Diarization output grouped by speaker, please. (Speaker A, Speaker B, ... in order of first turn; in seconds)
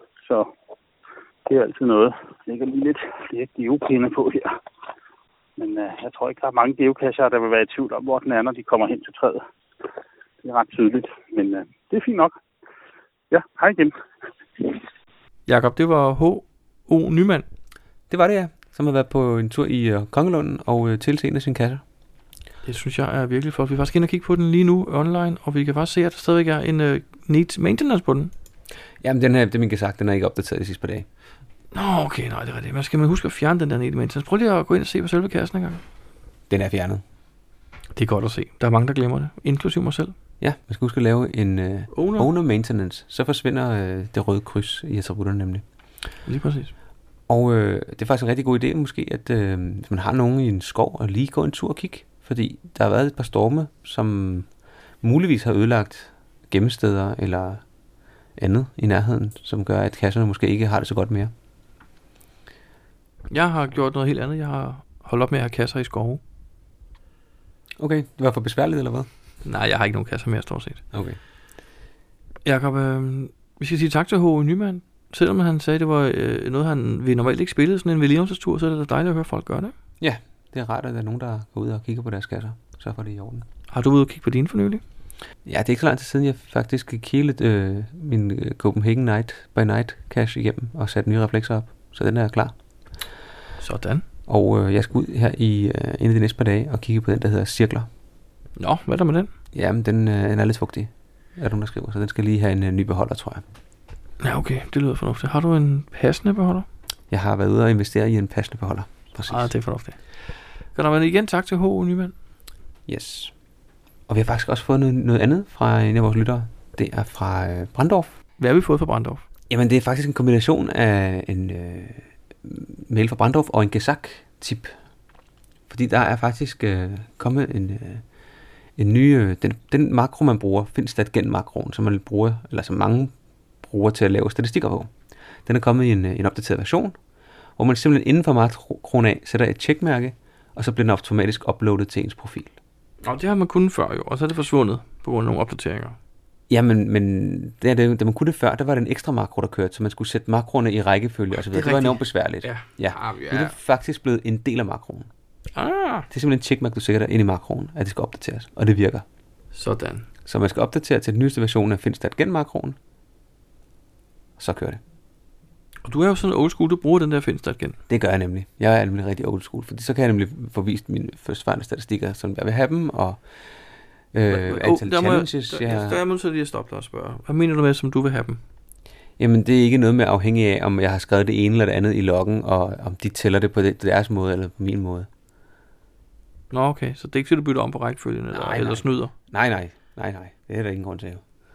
Speaker A: 0.2-0.5, 1.4-4.6, 5.6-9.4, 10.4-12.3, 13.3-13.9
Speaker B: 15.5-17.5, 22.6-28.3, 31.7-35.8, 37.9-40.1, 41.9-42.3, 46.2-46.7, 63.3-66.2, 69.4-70.8, 72.4-79.7, 83.7-84.8, 93.6-94.0, 98.6-99.3, 104.2-106.7, 109.3-110.0, 110.7-112.1, 118.4-119.2, 143.0-146.0, 151.5-153.6, 155.5-156.1, 159.5-160.1, 165.8-167.8, 174.3-178.4, 186.5-189.1
Speaker C: 18.1-21.8, 29.0-31.1, 36.5-37.0, 40.4-45.6, 47.3-54.5, 55.0-57.6, 58.4-61.3, 67.8-69.1, 70.9-71.2, 80.0-83.4, 85.4-92.5, 94.3-97.9, 99.5-103.4, 107.1-109.5, 112.9-113.3, 114.1-118.1, 119.5-124.7, 125.7-128.0, 128.8-134.9, 135.4-137.0, 137.6-142.5, 146.5-155.1, 156.1-159.0, 160.2-162.8, 164.4-164.8, 167.9-173.2, 174.1-176.0, 179.2-185.1, 188.3-191.2